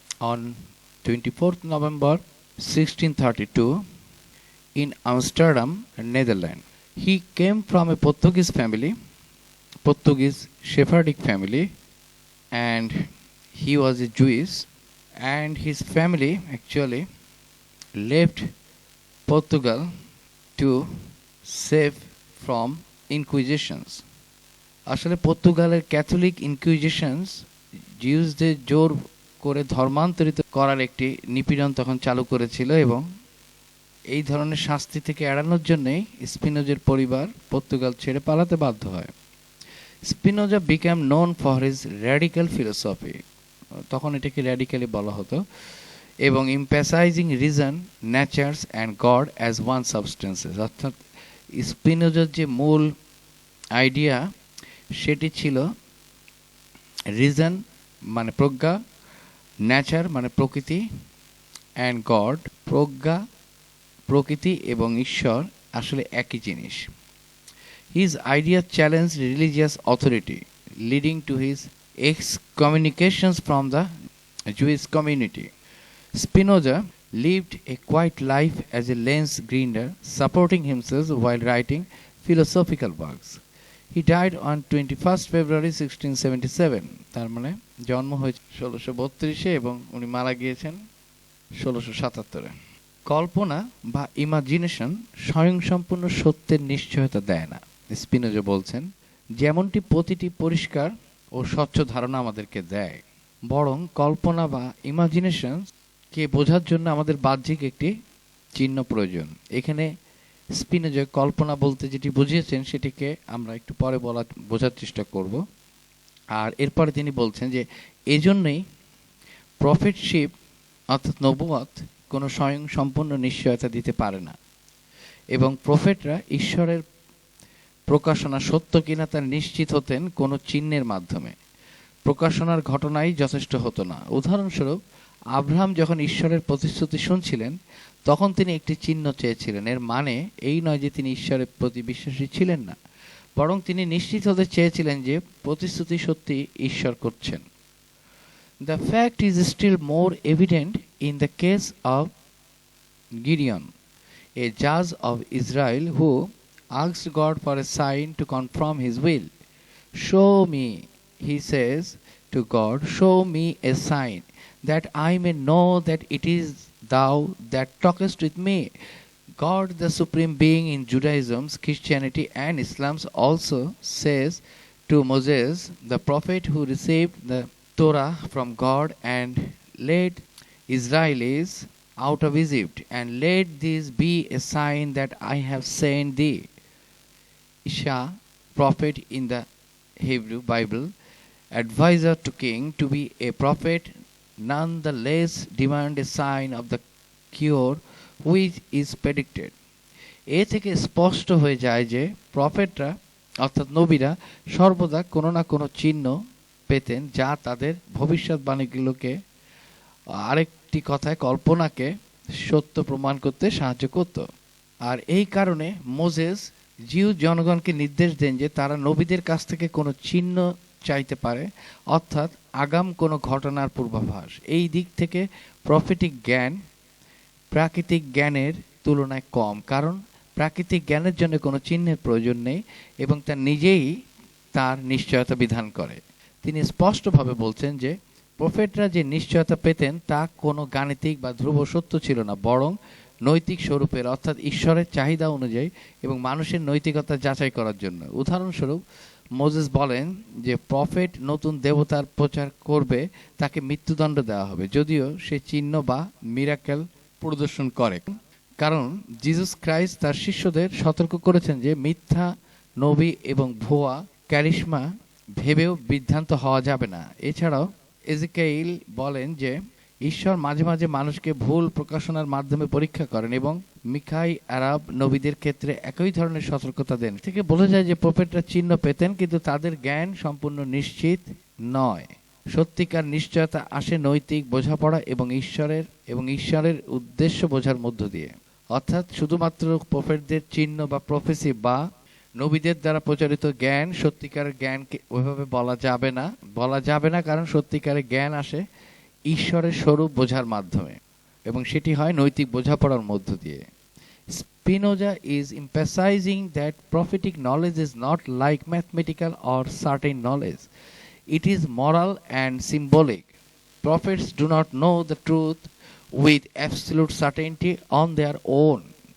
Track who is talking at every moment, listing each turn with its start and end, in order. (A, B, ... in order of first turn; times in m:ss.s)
0:00.2-0:03.8 A
0:04.8-0:09.0 A
0:09.8-0:11.7 A
0:12.5-0:14.7 A
0:15.2-0:17.1 A
0:18.0-0:18.5 A
0:19.3-0:19.9 A
0:20.6-0:20.8 A
0:21.5-0:24.0 A
0:24.9-0:27.4 A
0:28.0-0:33.0 A
0:34.1-0:39.1 A
0:40.1-0:43.2 A
0:43.9-0:45.4 A
0:46.3-0:51.0 A
0:51.6-0:52.9 A
0:53.8-0:54.2 A
0:55.0-0:55.7 A
0:57.1-0:57.6 A
0:58.1-0:58.8 A
0:59.7-1:00.9 A
1:01.8-1:03.2 A
1:04.1-1:06.9 A
1:07.9-1:13.9 A
1:14.5-1:15.5 A
1:16.2-1:23.4 A
1:23.9-1:30.8 A
1:31.6-1:32.5 A
1:33.1-1:38.9 A
1:39.4-1:43.0 A
1:43.5-1:47.9 A
1:48.6-1:49.9 A
1:50.6-1:55.4 A
1:56.4-1:58.6 A
1:59.6-2:00.3 A
2:00.9-2:04.4 A
2:05.4-2:06.8 A
2:07.9-2:11.4 A
2:12.1-2:14.8 A
2:15.4-2:17.5 A
2:18.1-2:22.8 A
2:23.4-2:27.4 A
2:28.6-2:32.1 A
2:33.2-2:33.7 A
2:34.4-2:39.3 A
2:40.0-2:48.7 A
2:49.4-3:06.5 A
3:07.7-3:09.4 A
3:10.0-3:10.9 A
3:11.6-3:13.9 A
3:14.5-3:16.8 A
3:17.3-3:19.5 A
3:20.3-3:26.2 A
3:26.7-3:29.2 A
3:30.2-3:31.9 A
3:32.4-3:34.2 A
3:34.8-3:46.6 A
3:47.5-3:53.9 A
3:54.6-4:02.8 A
4:03.3-4:08.8 A
4:09.4-4:22.3 A
4:22.8-4:24.8 A
4:25.4-4:51.8 A
4:52.4-4:58.6 A
4:59.3-5:01.0 A
5:01.5-5:03.6 A
5:04.3-5:10.7 A
5:11.3-5:13.3 A
5:13.8-5:18.9 A